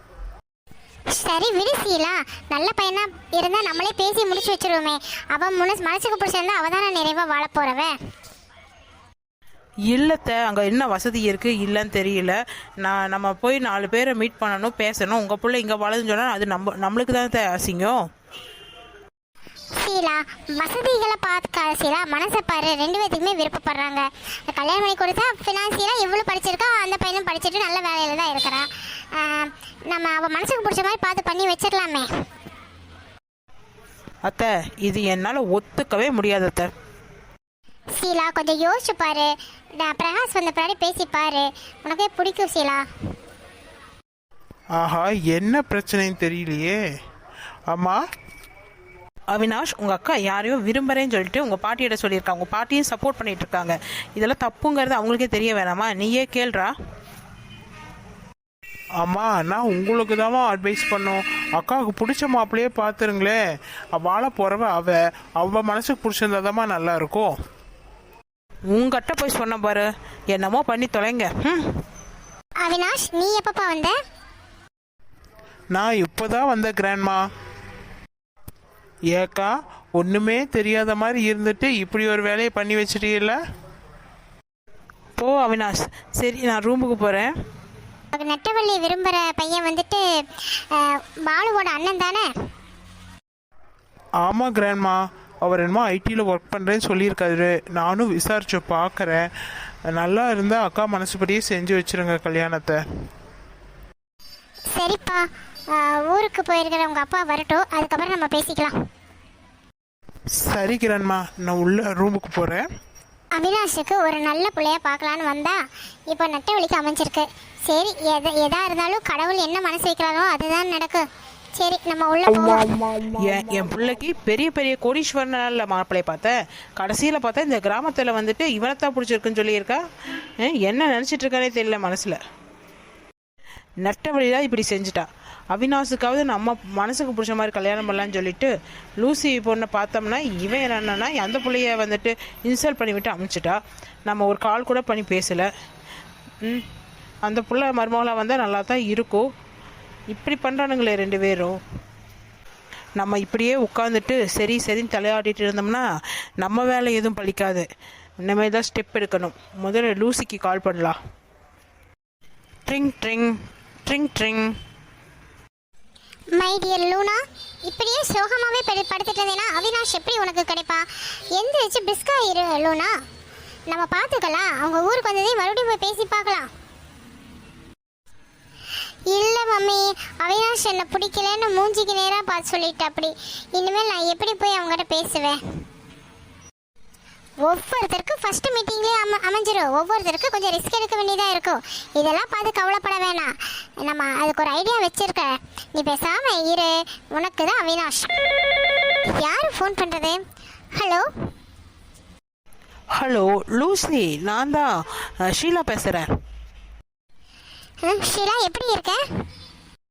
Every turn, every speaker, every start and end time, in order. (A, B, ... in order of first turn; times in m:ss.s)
0:01.1-0:08.0 A
0:09.9-0:18.0 B
0:19.8-0:32.1 A
0:34.2-0:36.7 B
0:38.0-0:42.9 A
0:44.8-0:46.8 C
0:47.7-0:48.0 C
0:49.3-0:56.7 B
0:59.0-1:03.4 C
1:04.0-1:07.3 C
1:08.7-1:11.6 B
1:12.6-1:14.0 A
1:15.7-1:17.2 C
1:19.1-1:23.4 C
1:25.2-1:27.3 B
1:28.1-1:32.3 A
1:34.2-1:39.2 C
1:39.9-1:42.8 C
1:44.7-1:48.7 A
1:50.4-1:52.6 C
1:53.4-1:55.6 A
1:56.1-2:02.7 A
2:03.0-2:09.8 B
2:10.4-2:12.2 B
2:13.8-2:25.5 B
2:27.3-2:29.2 B
2:30.1-2:31.6 B
2:33.0-2:35.9 B
2:36.4-2:37.6 B
2:38.2-2:41.0 B
2:42.7-2:44.5 B
2:46.4-2:52.9 A
2:53.7-2:56.5 A
2:59.1-3:05.4 A
3:07.4-3:18.1 A
3:19.1-3:20.2 A
3:20.8-3:21.1 A
3:23.0-3:26.1 B
3:27.8-3:29.0 A